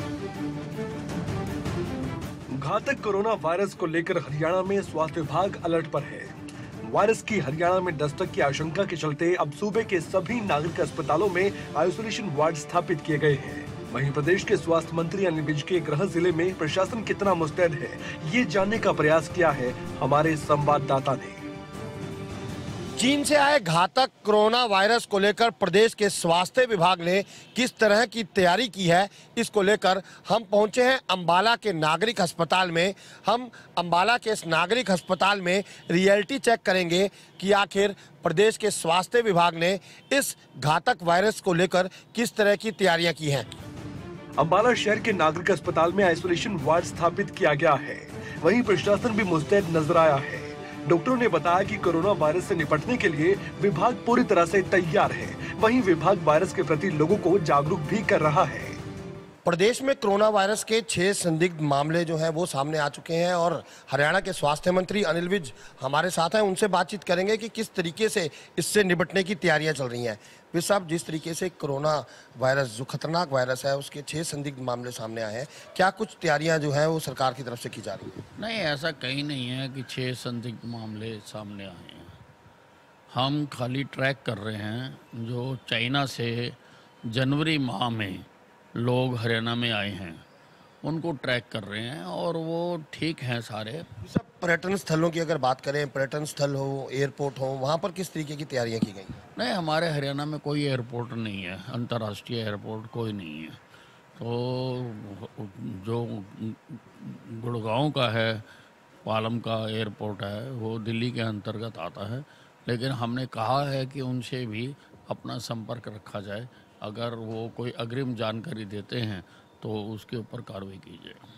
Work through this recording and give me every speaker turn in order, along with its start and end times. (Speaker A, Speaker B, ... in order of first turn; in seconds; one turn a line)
Speaker A: 2.5-21.4
Speaker B: 23.0-43.5
Speaker A: 44.4-58.8
Speaker B: 59.5-78.2
Speaker C: 78.4-82.1
Speaker C: 83.1-86.6
Speaker C: 87.1-90.2
Speaker C: 90.8-93.9
Speaker B: 94.0-99.2
Speaker C: 99.4-103.6
Speaker C: 104.2-108.5
Speaker C: 109.0-121.2